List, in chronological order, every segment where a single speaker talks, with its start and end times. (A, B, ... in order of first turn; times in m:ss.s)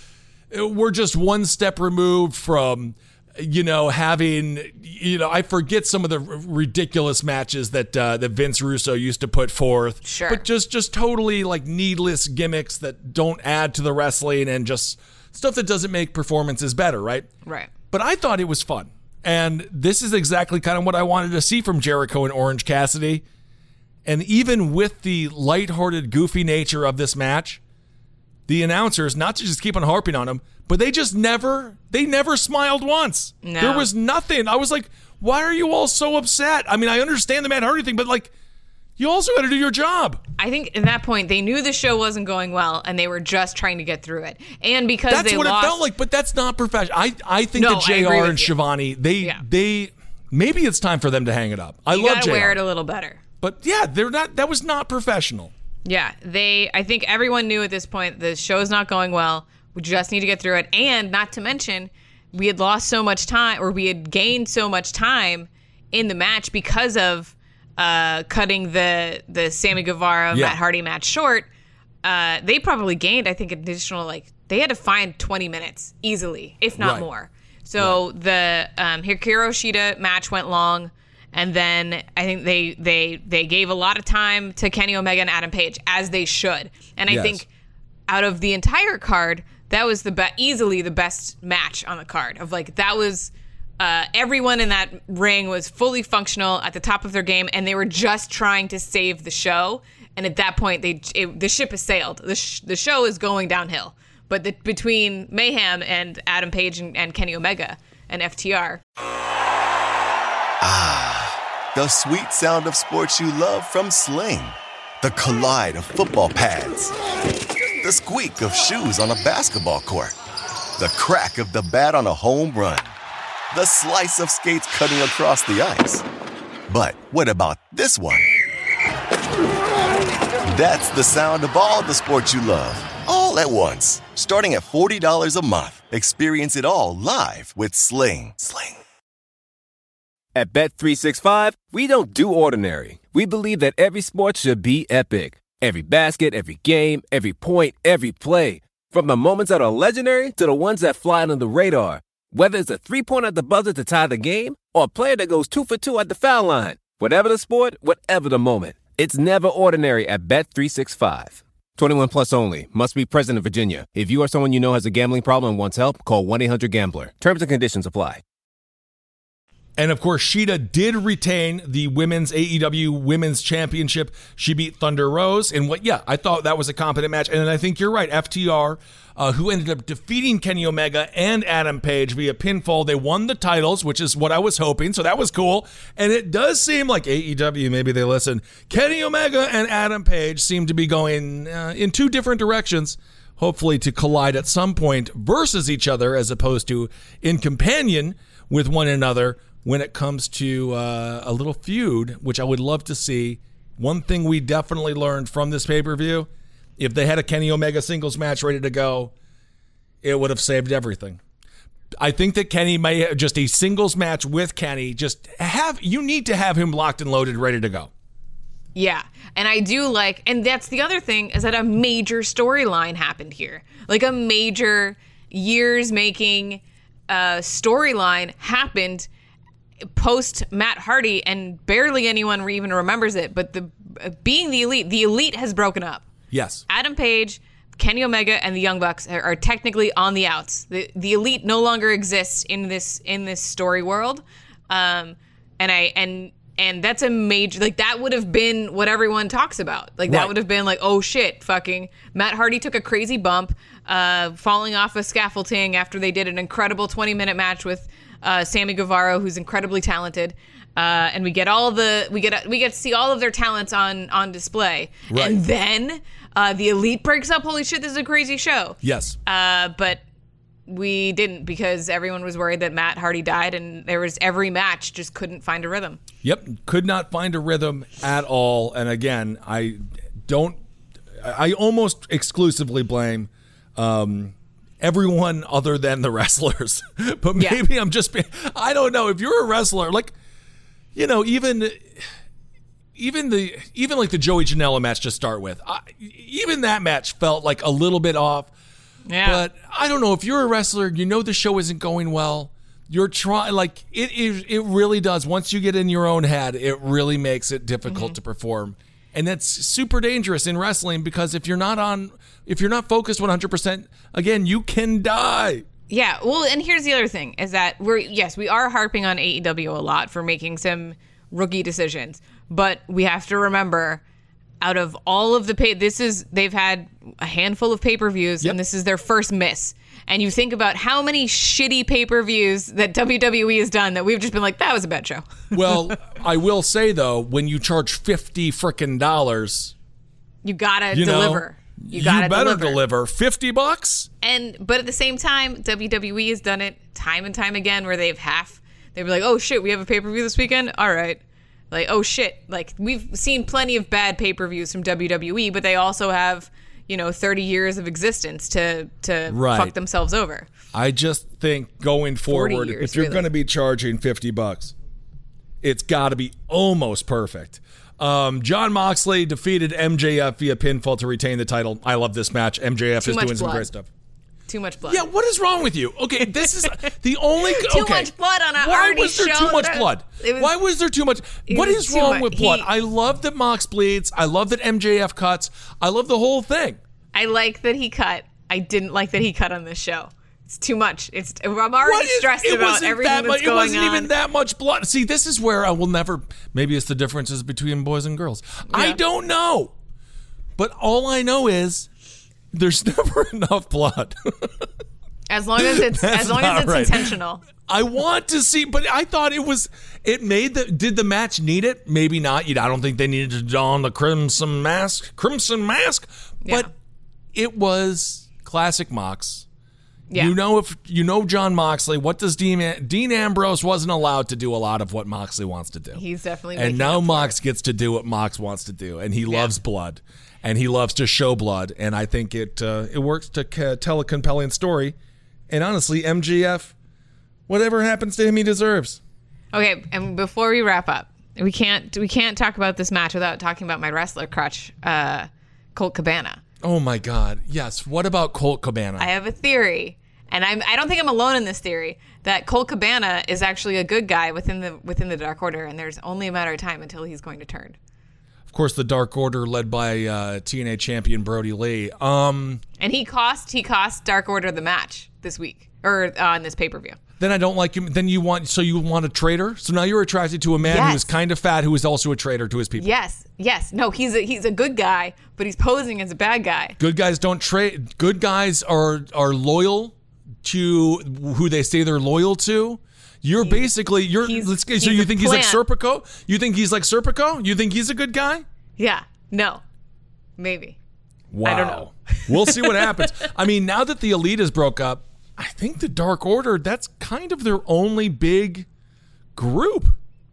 0:00.5-0:17.3 A
0:10.0-0:10.4 B
0:17.4-0:17.7 B
0:17.9-0:23.2 A
0:24.0-0:27.6 A
0:28.5-0:38.3 A
0:33.4-0:33.9 B
0:39.0-0:40.2 A
0:40.4-0:45.8 B
0:45.1-0:52.6 A
0:47.6-0:48.5 B
0:51.9-0:53.2 B
0:53.4-0:55.5 A
0:55.8-1:11.5 B
1:10.3-1:10.6 A
1:12.0-1:27.5 B
1:16.8-1:17.1 A
1:27.1-1:27.4 A
1:28.1-1:48.8 B
1:50.6-1:56.9 C
1:57.8-2:00.2 C
2:00.8-2:02.9 C
2:03.5-2:06.0 C
2:06.7-2:08.3 C
2:10.5-2:18.8 C
2:20.4-2:48.2 D
2:49.8-3:29.1 A
3:30.0-3:31.2 A
3:32.0-3:37.9 A
3:38.8-3:49.1 B
3:49.9-3:56.0 B
3:56.3-3:56.6 A
3:56.7-4:30.0 B
4:10.1-4:10.3 A
4:25.1-4:25.4 A
4:28.8-4:29.2 A
4:30.7-4:36.0 B
4:36.2-4:40.6 A
4:41.2-4:50.1 A
4:51.0-4:52.1 A
4:53.0-4:58.5 A
4:59.1-4:59.4 B
4:59.2-5:15.6 A
5:07.9-5:08.2 B
5:15.9-5:24.0 B
5:24.6-5:35.8 B
5:35.5-5:39.7 A
5:40.4-5:42.8 B
5:40.9-5:44.1 A
5:44.2-6:00.5 B
5:59.3-5:59.8 A
6:00.7-6:04.7 A
6:02.3-6:03.3 B
6:05.6-6:13.9 A
6:13.0-6:13.7 B
6:14.5-6:15.1 B
6:14.9-6:26.8 A
6:16.7-6:20.5 B
6:21.5-6:22.7 B
6:27.1-6:34.1 B
6:31.8-6:39.7 A
6:38.7-6:39.0 B
6:40.6-6:41.9 A
6:42.5-6:44.7 A
6:45.3-6:47.4 B
6:45.6-6:47.1 A
6:47.6-6:56.7 A
6:57.3-6:59.5 A
7:00.1-7:00.4 B
7:00.2-7:06.0 A
7:05.9-7:07.4 B
7:06.6-7:15.0 A
7:15.5-7:16.8 A
7:17.5-7:19.0 A
7:19.5-7:26.4 B
7:26.6-7:29.1 A
7:29.0-7:37.8 B
7:38.5-7:42.6 A
7:42.8-7:47.0 B
7:47.2-7:52.9 A
7:50.6-7:51.1 B
7:52.8-7:56.8 B
7:56.8-8:08.4 A
8:03.4-8:03.7 B
8:04.2-8:05.6 B
8:08.8-8:09.6 B
8:10.4-8:10.8 B
8:11.3-8:18.7 A
8:11.4-8:13.2 B
8:19.4-8:20.0 A